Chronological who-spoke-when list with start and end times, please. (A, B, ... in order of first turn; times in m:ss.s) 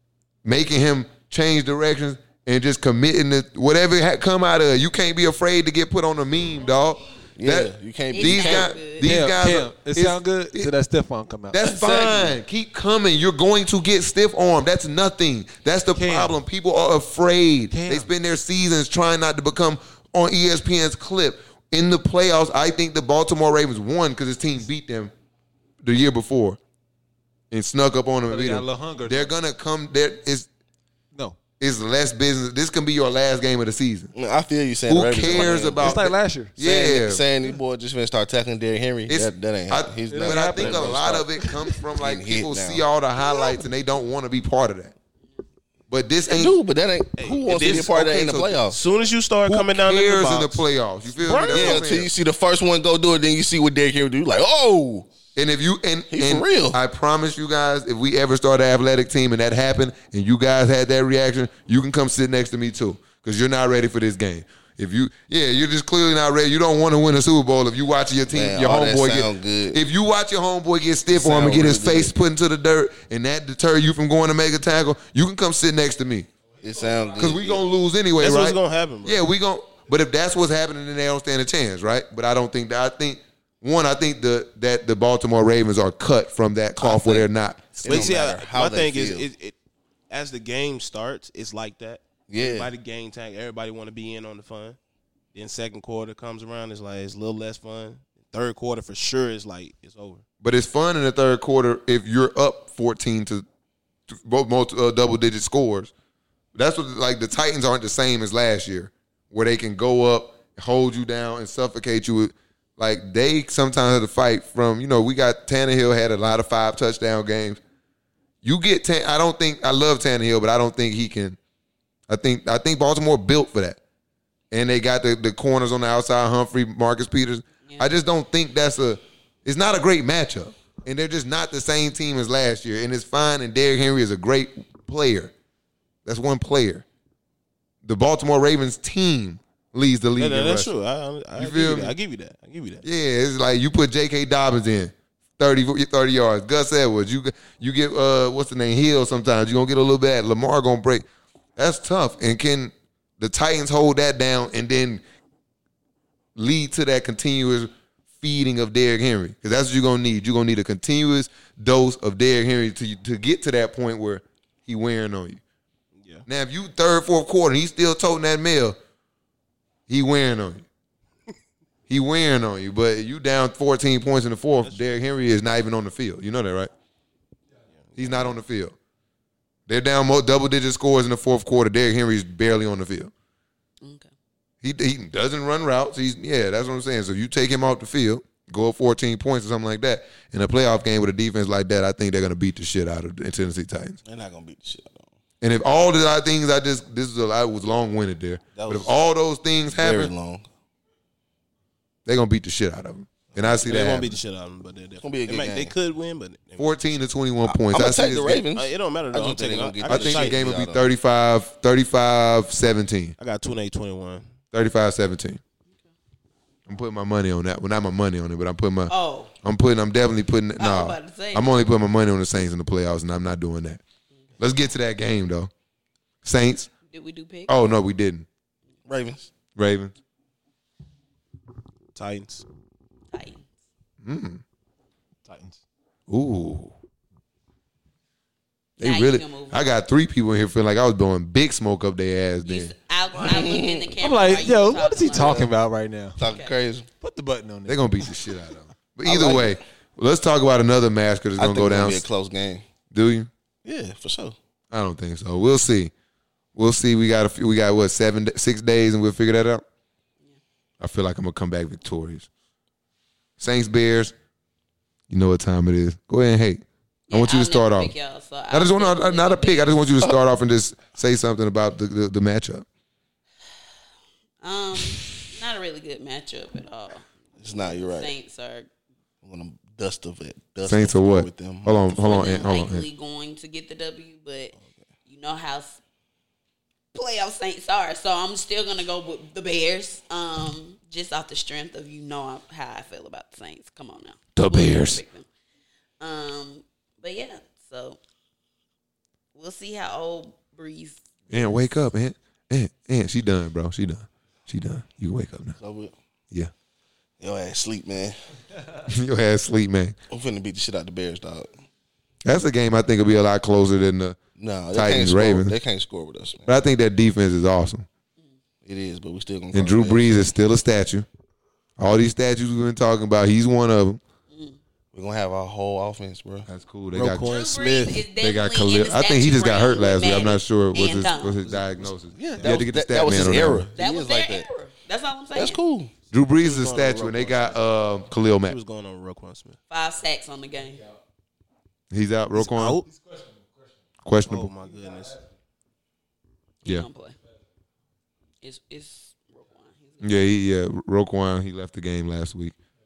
0:00.4-0:10.7 A
0:07.4-0:08.7 B
0:08.1-0:09.1 C
0:09.0-0:11.6 D
0:11.5-0:25.1 A
0:11.6-0:12.4 B
0:16.0-0:16.4 D
0:17.7-0:18.1 D
0:25.8-0:26.6 A
0:27.5-0:30.5 A
0:28.3-0:29.3 D
0:31.6-0:34.1 A
0:34.1-0:41.3 B
0:34.9-0:37.2 A
0:35.3-0:36.6 D
0:39.1-0:44.9 A
0:40.1-0:41.8 D
0:42.0-0:42.9 B
0:45.9-0:46.6 A
0:46.3-0:48.8 B
0:47.2-0:48.0 E
0:47.4-0:48.6 A
0:48.6-0:52.0 E
0:49.4-0:52.1 A
0:51.5-0:55.1 B
0:55.4-1:16.3 A
0:56.1-0:56.8 B
1:08.3-1:09.8 B
1:11.1-1:12.1 B
1:16.6-1:17.6 B
1:17.2-1:28.1 A
1:18.2-1:19.2 E
1:26.8-1:29.3 B
1:27.8-1:29.6 E
1:30.1-1:34.8 E
1:32.3-1:32.7 B
1:35.3-1:40.2 E
1:40.4-1:43.4 A
1:44.1-1:45.9 A
1:46.6-1:57.6 A
1:58.4-2:01.4 A
2:02.1-2:03.8 A
2:04.5-2:15.3 A
2:16.0-2:16.8 A
2:17.8-2:20.7 A
2:20.2-2:22.8 E
2:21.4-2:22.0 A
2:22.8-2:31.0 A
2:31.6-2:35.0 A
2:36.3-2:45.4 A
2:46.0-2:46.2 E
2:46.3-2:48.8 A
2:49.9-2:50.6 A
2:51.9-2:56.7 A
2:54.6-2:54.9 E
2:57.8-2:58.4 E
2:58.0-2:58.7 A
2:59.7-3:03.1 A
3:03.8-3:04.1 C
3:04.6-3:14.0 A
3:14.0-3:15.1 B
3:15.4-3:20.1 A
3:18.6-3:19.0 B
3:19.7-3:20.5 B
3:22.0-3:24.2 A
3:23.4-3:26.8 E
3:25.0-3:25.7 B
3:26.6-3:28.4 A
3:27.4-3:30.9 B
3:28.5-3:30.4 E
3:29.9-3:33.2 A
3:33.2-3:34.3 E
3:34.5-3:35.4 A
3:36.7-3:38.9 A
3:38.9-3:39.3 C
3:39.4-3:43.8 A
3:40.6-3:41.6 C
3:44.4-3:45.5 A
3:46.2-3:46.7 A
3:46.9-3:47.6 C
3:47.5-3:48.3 A
3:48.9-3:49.3 B
3:49.6-3:49.9 A
3:52.0-3:52.4 E
3:53.1-3:53.4 C
3:54.0-3:54.4 A
3:55.3-3:55.6 D
3:56.1-3:56.7 A
3:58.8-4:02.7 A
3:58.8-3:59.7 C
4:02.4-4:05.5 C
4:03.2-4:04.0 B
4:04.0-4:06.2 D
4:05.0-4:05.5 B
4:06.2-4:06.9 B
4:06.2-4:06.5 C
4:07.0-4:08.3 D
4:07.6-4:12.0 A
4:09.0-4:09.6 B
4:11.4-4:12.6 B
4:12.9-4:13.3 A
4:13.6-4:14.4 B
4:14.7-4:15.9 A
4:16.6-4:19.6 A
4:20.8-4:22.3 A
4:23.4-4:24.1 A
4:25.1-4:27.9 A
4:27.1-4:29.8 C
4:28.5-4:32.6 A
4:34.4-4:38.7 C
4:37.4-4:38.1 B
4:39.2-4:42.5 B
4:40.6-4:42.9 A
4:42.0-4:44.6 C
4:45.0-4:45.8 C
4:46.9-4:55.3 C
4:54.3-4:55.0 A
4:56.0-4:58.0 C
4:59.3-5:01.0 C
5:01.3-5:05.6 A
5:05.6-5:05.9 B
5:07.2-5:08.2 B
5:08.9-5:10.0 A
5:10.1-5:11.5 B
5:12.2-5:14.2 A
5:14.4-5:16.5 B
5:14.7-5:15.5 A
5:16.4-5:17.9 A
5:18.6-5:20.2 B
5:19.5-5:21.1 A
5:21.8-5:24.0 A
5:24.3-5:24.6 C
5:24.9-5:26.5 B
5:26.5-5:27.4 A
5:26.9-5:28.1 E
5:27.2-5:31.4 C
5:28.2-5:33.7 A
5:31.4-5:34.5 B
5:32.2-5:32.5 D
5:33.8-5:35.6 C
5:35.3-5:35.9 B
5:36.1-5:38.6 A
5:36.4-5:37.8 E
5:38.3-5:39.6 E
5:39.7-5:40.8 C
5:41.9-5:42.8 A
5:42.3-5:42.9 E
5:43.0-5:43.4 D
5:44.0-5:44.5 A
5:44.2-5:45.2 E
5:44.8-5:45.1 D
5:46.6-5:47.2 C
5:48.4-5:50.2 C
5:50.0-5:52.6 A